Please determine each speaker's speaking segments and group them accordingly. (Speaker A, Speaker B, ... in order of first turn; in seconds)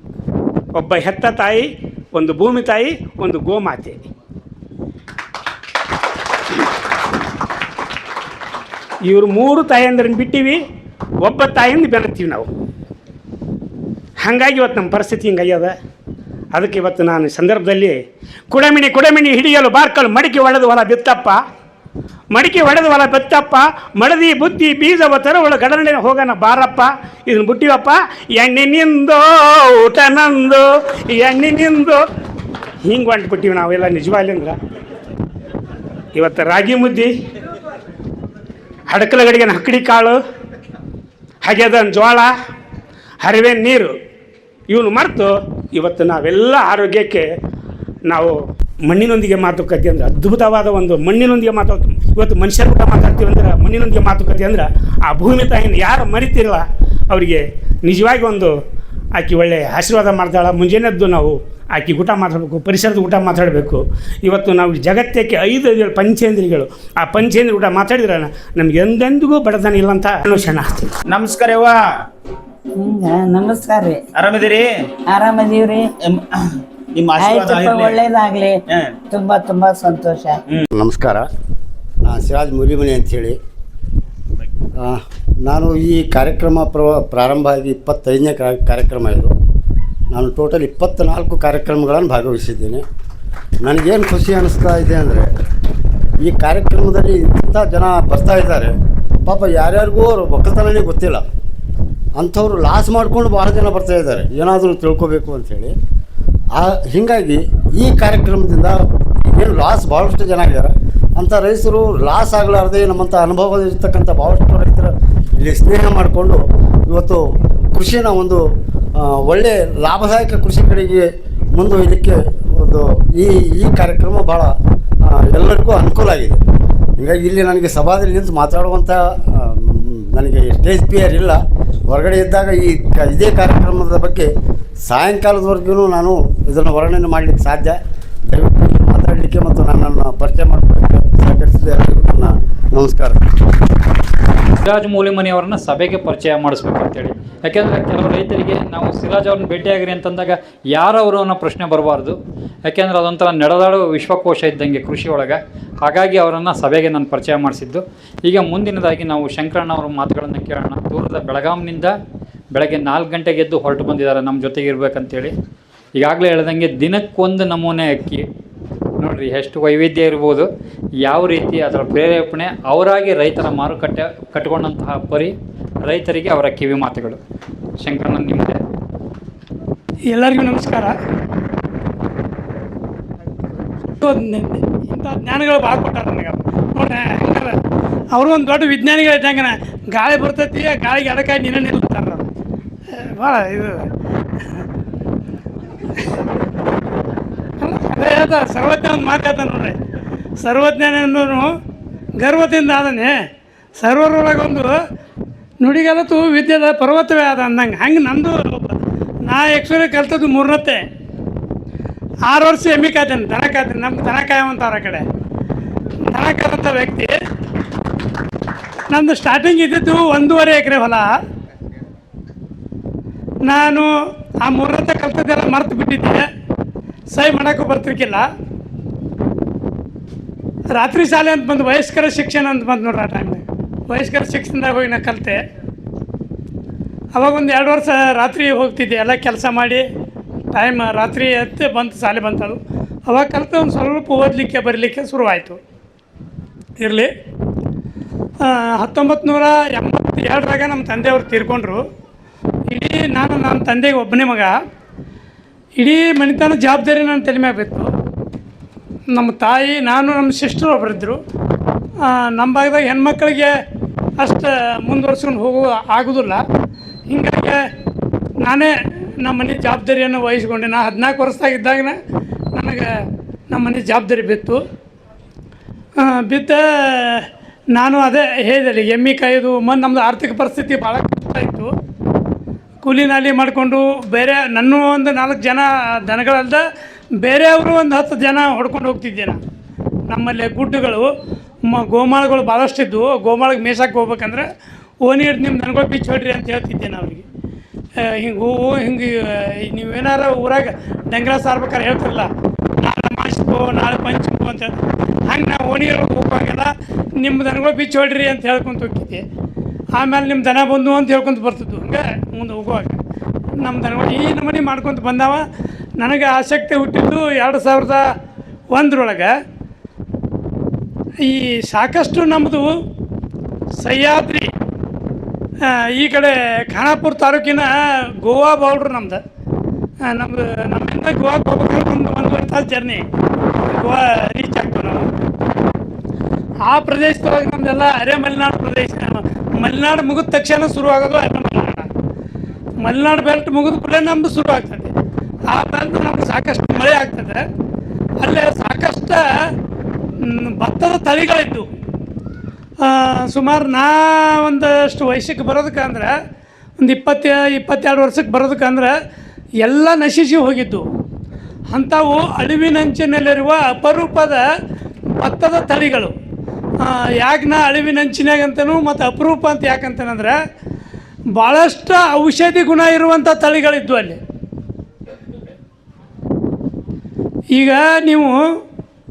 Speaker A: 2.2-3.9, 9.1-10.6, 11.3-12.4, 14.2-15.7, 16.6-17.9, 18.6-21.4, 22.3-32.0, 32.9-34.5, 36.2-37.1, 38.9-40.2, 41.5-42.3, 43.2-43.9, 44.7-47.2, 48.1-48.4, 48.9-58.5, 59.1-69.4, 180.1-180.9, 184.7-186.4, 189.2-191.1, 191.9-192.2, 192.9-193.8, 198.2-198.8, 200.6-201.4, 212.8-215.0, 216.4-217.1, 232.5-233.4, 245.3-245.6, 281.0-281.3, 303.6-304.3, 334.8-335.1
Speaker B: 71.1-72.0, 74.1-74.9, 76.0-76.4, 76.9-78.0, 78.7-79.0
Speaker C: 72.8-74.0, 75.1-75.9, 77.2-80.4
Speaker D: 80.7-81.2, 82.0-83.4, 84.8-89.3, 90.1-92.8, 93.6-95.3, 96.2-98.7, 99.2-101.2, 102.2-105.7, 106.5-118.4, 118.9-124.5, 125.0-126.4, 127.0-134.3, 134.8-143.2
Speaker E: 144.6-161.9, 162.5-165.3, 166.0-168.2, 169.0-170.5, 171.0-177.2, 177.8-178.6
Speaker F: 184.0-185.3, 186.8-187.5, 188.1-190.2, 190.8-192.2, 193.1-193.8, 197.6-199.6, 200.4-201.2, 202.2-203.2, 203.8-204.7, 205.6-208.7, 209.2-210.8, 212.3-215.0, 216.1-217.1, 218.9-221.1, 223.4-223.9, 224.4-226.2, 227.1-228.2, 230.7-235.4, 237.1-239.8, 240.5-245.5, 246.8-247.1, 248.4-251.8, 252.7-254.5, 255.8-257.9, 259.1-261.1, 262.0-263.5, 264.2-266.4, 267.1-267.6, 268.4-271.9, 272.5-272.9, 273.5-274.6, 276.0-281.7, 282.8-286.6, 287.2-289.4, 290.1-291.1, 291.6-294.4, 295.0-297.1, 298.0-302.3, 302.8-304.7, 305.3-309.2, 309.9-312.9, 313.6-315.4, 316.0-318.0, 318.7-319.3, 321.2-322.7, 323.8-324.5, 325.6-329.2, 330.0-332.9, 333.7-334.8, 336.6-341.8, 342.8-344.9, 345.5-347.4, 348.2-349.2, 350.2-351.6, 352.8-356.1, 356.8-358.9, 359.6-360.8, 361.7-364.4, 365.1-366.1, 366.8-370.4, 371.3-374.2, 377.5-378.4